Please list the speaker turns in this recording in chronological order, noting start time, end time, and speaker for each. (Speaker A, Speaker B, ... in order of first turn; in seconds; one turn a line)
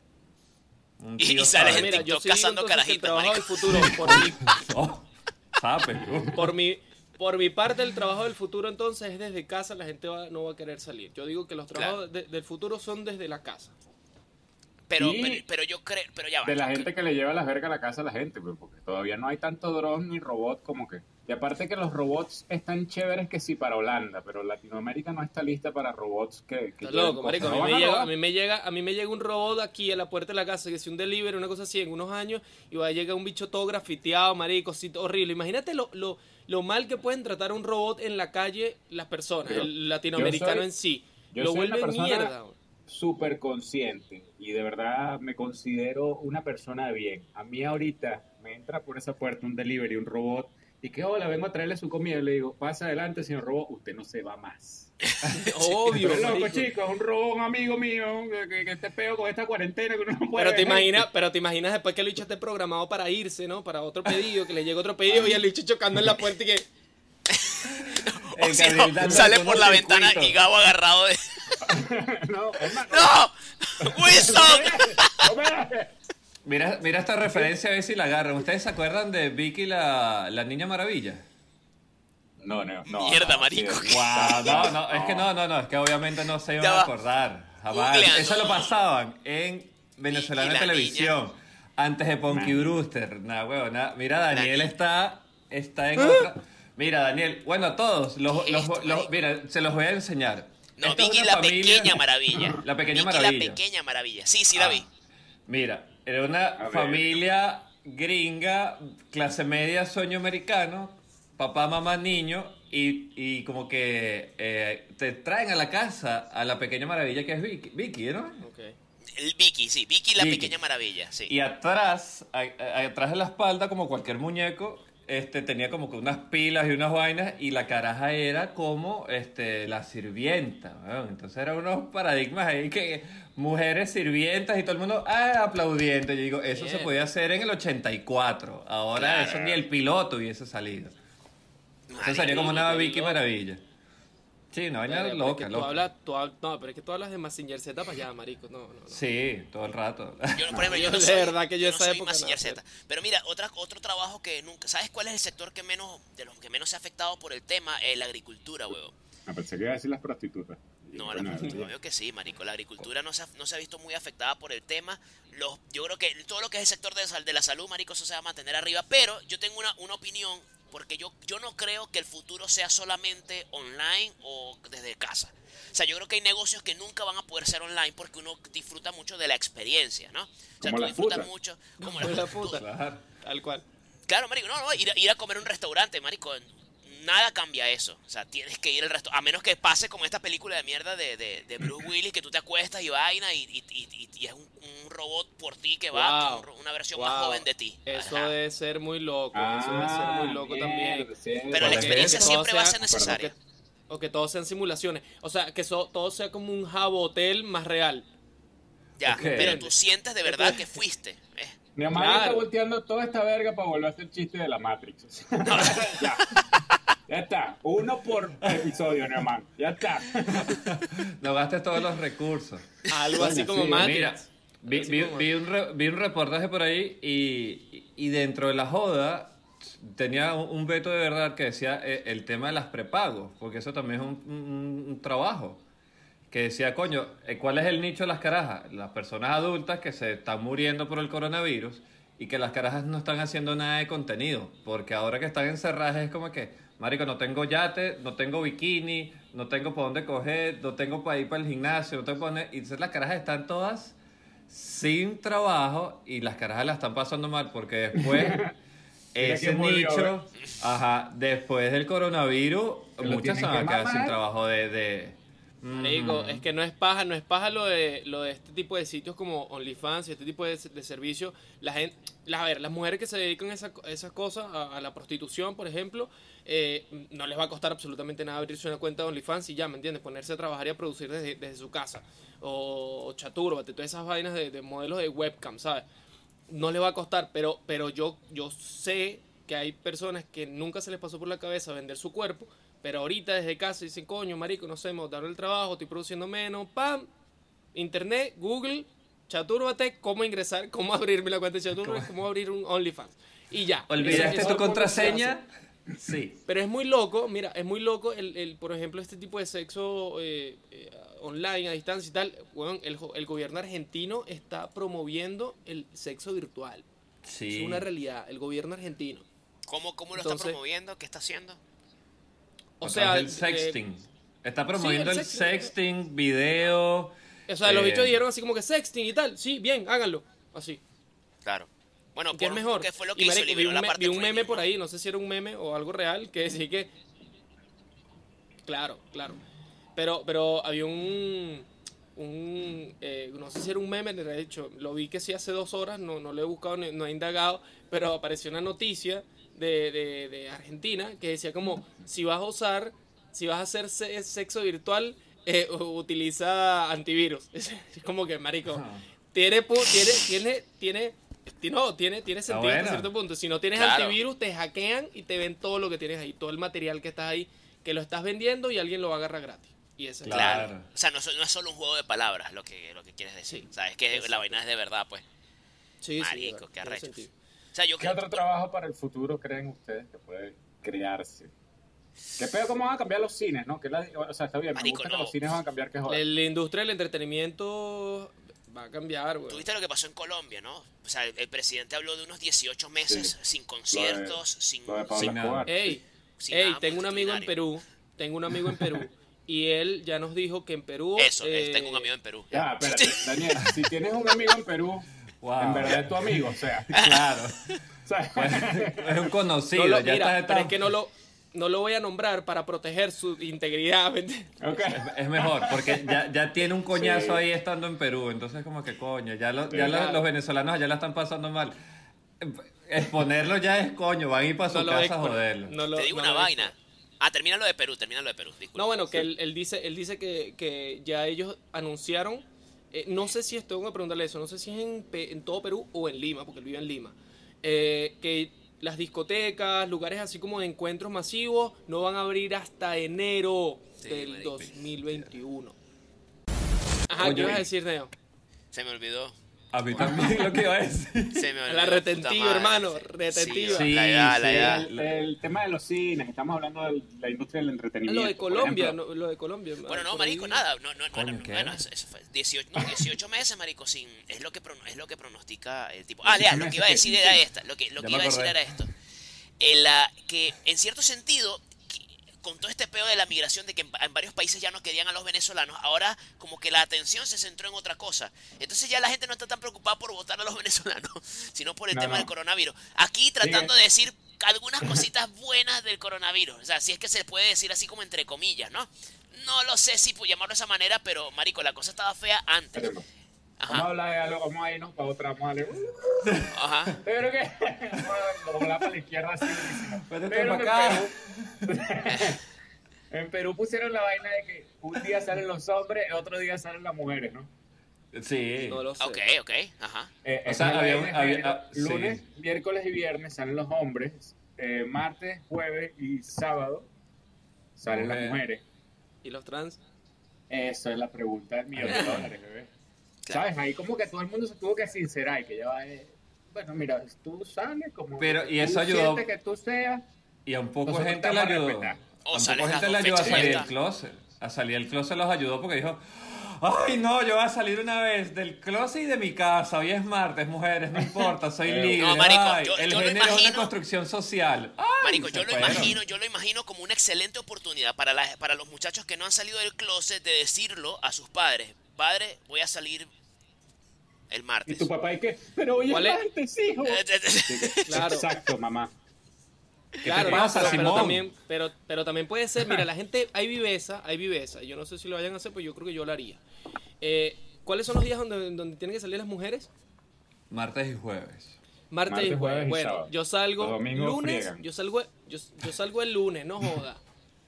Speaker A: 1.0-2.1
Speaker B: 1.2-3.7
Speaker C: 1.6-4.5
Speaker A: 3.6-6.5
Speaker D: 6.0-6.3
Speaker C: 6.3-13.7
Speaker B: 14.9-16.9
Speaker D: 15.0-15.4
Speaker D: 16.4-28.1
Speaker C: 26.8-42.5
Speaker D: 39.4-40.7
Speaker D: 41.3-42.3
Speaker D: 42.9-54.9
Speaker C: 55.3-56.7
Speaker D: 55.9-61.1
Speaker C: 60.4-66.7
Speaker D: 65.1-65.4
Speaker B: 67.3-71.7
Speaker A: 67.8-70.4
Speaker D: 71.6-73.1
Speaker B: 72.7-75.3
Speaker D: 73.8-76.0
Speaker A: 76.4-81.2
Speaker D: 82.4-85.3
Speaker B: 82.8-84.7
Speaker A: 83.8-103.6
Speaker B: 86.6-86.9
Speaker B: 87.7-88.7
Speaker B: 90.1-91.1
Speaker D: 92.3-92.7
Speaker B: 94.3-94.7
Speaker C: 96.0-96.2
Speaker B: 98.3-99.1
Speaker B: 100.8-104.9
Speaker D: 102.3-102.6
Speaker A: 105.5-118.4
Speaker D: 106.6-107.2
Speaker C: 118.4-118.7
Speaker B: 119.1-121.3
Speaker A: 120.2-120.6
Speaker A: 121.3-140.9
Speaker C: 136.5-136.9
Speaker B: 138.9-139.6
Speaker B: 141.9-142.9
Speaker A: 142.0-143.6
Speaker C: 142.2-143.2
Speaker A: 144.5-145.9
Speaker C: 144.9-149.0
Speaker A: 148.9-150.6
Speaker B: 150.3-158.9
Speaker D: 150.5-150.8
Speaker C: 150.7-152.6
Speaker D: 159.2-161.7
Speaker B: 160.9-182.6
Speaker C: 161.3-161.6
Speaker D: 180.6-181.3
Speaker C: 181.8-182.6
Speaker A: 182.0-183.0
Speaker C: 183.2-183.6
Speaker B: 184.1-198.3
Speaker C: 195.9-203.3
Speaker D: 199.3-203.3
Speaker B: 201.5-203.3
Speaker C: 203.9-208.1
Speaker B: 209.0-211.6
Speaker A: 209.1-209.6
Speaker C: 209.1-209.7
Speaker C: 210.2-210.8
Speaker D: 211.7-216.2
Speaker C: 211.9-212.5
Speaker B: 215.4-216.7
Speaker D: 217.1-220.6
Speaker A: 220.4-235.6
Speaker C: 222.9-225.3
Speaker D: 223.2-224.0
Speaker A: 236.3-254.0
Speaker A: 254.5-258.4
Speaker D: 257.9-258.5
Speaker A: 259.1-266.4
Speaker D: 259.2-260.1
Speaker D: 263.0-264.1
Speaker C: 265.8-285.8
Speaker C: 286.5-297.1
Speaker C: 297.7-305.4
Speaker A: 301.8-302.1
Speaker A: 303.9-305.4
Speaker D: 304.0-305.2
Speaker A: 305.9-306.4
Speaker C: 306.4-316.9
Speaker A: 317.2-317.8
Speaker C: 317.5-319.2
Speaker B: 319.7-321.6
Speaker C: 320.2-320.6
Speaker C: 322.8-323.8
Speaker A: 322.8-328.2
Speaker C: 324.7-325.7
Speaker C: 327.5-330.8
Speaker B: 331.4-334.7
Speaker C: 332.3-336.9
Speaker C: 338.6-339.4
Speaker C: 339.9-370.7
Speaker A: 358.6-359.0
Speaker A: 362.5-363.1
Speaker B: 363.7-364.2
Speaker A: 370.2-370.8
Speaker B: 370.2-375.2
Speaker C: 373.5-374.6
Speaker C: 376.0-377.3
Speaker B: 376.2-378.4
Speaker D: 378.0-381.5
Speaker D: 382.4-386.2
Speaker B: 384.7-385.4
Speaker C: 386.1-389.6
Speaker B: 389.5-395.4
Speaker D: 393.1-393.3
Speaker D: 393.9-395.9
Speaker A: 395.1-395.7
Speaker C: 395.7-402.1
Speaker B: 396.4-397.5
Speaker B: 401.2-403.6
Speaker D: 402.5-407.0
Speaker A: 405.4-407.8
Speaker B: 406.9-407.8
Speaker D: 408.0-409.3
Speaker A: 408.3-410.8
Speaker C: 409.7-414.6
Speaker D: 414.6-416.2
Speaker A: 414.9-421.8
Speaker D: 416.9-417.4
Speaker D: 419.7-420.1
Speaker C: 419.9-420.2
Speaker A: 422.4-425.8
Speaker C: 424.6-426.7
Speaker B: 425.9-428.9
Speaker C: 428.8-445.8
Speaker B: 444.0-444.7
Speaker C: 447.1-448.1
Speaker A: 447.2-447.6
Speaker B: 448.7-449.4
Speaker A: 449.7-451.5
Speaker B: 449.9-450.2
Speaker D: 449.9-450.5
Speaker B: 451.3-454.9
Speaker C: 451.7-453.9
Speaker A: 453.7-455.3
Speaker D: 454.4-459.0
Speaker C: 458.1-460.6
Speaker B: 459.8-468.9
Speaker A: 461.1-461.9
Speaker D: 466.2-467.4
Speaker A: 468.0-468.7
Speaker B: 469.6-492.9
Speaker D: 481.9-482.3
Speaker D: 483.4-483.7
Speaker D: 492.7-493.1
Speaker B: 493.6-493.9
Speaker D: 493.7-502.4
Speaker B: 496.5-496.9
Speaker A: 499.8-501.6
Speaker B: 502.1-502.4
Speaker D: 503.1-507.5
Speaker A: 508.1-508.8
Speaker C: 508.6-509.2
Speaker B: 509.0-510.1
Speaker D: 510.2-516.9
Speaker A: 510.4-512.2
Speaker D: 517.8-518.6
Speaker A: 517.9-518.4
Speaker C: 519.2-519.8
Speaker D: 520.5-522.7
Speaker A: 521.7-522.3
Speaker C: 521.9-522.2
Speaker D: 523.3-530.0
Speaker A: 528.2-529.2
Speaker A: 530.5-546.0
Speaker D: 530.9-532.0
Speaker B: 532.2-533.7
Speaker D: 533.2-533.6
Speaker D: 541.0-542.1
Speaker B: 541.9-543.7
Speaker B: 545.0-553.1
Speaker B: 554.3-554.9
Speaker D: 554.6-558.9
Speaker C: 555.9-556.2
Speaker B: 556.8-557.9
Speaker C: 557.9-558.3
Speaker A: 560.0-561.3
Speaker C: 560.0-566.4
Speaker D: 560.1-561.1
Speaker C: 567.0-569.7
Speaker A: 570.5-571.6
Speaker C: 571.9-577.0
Speaker D: 572.1-574.6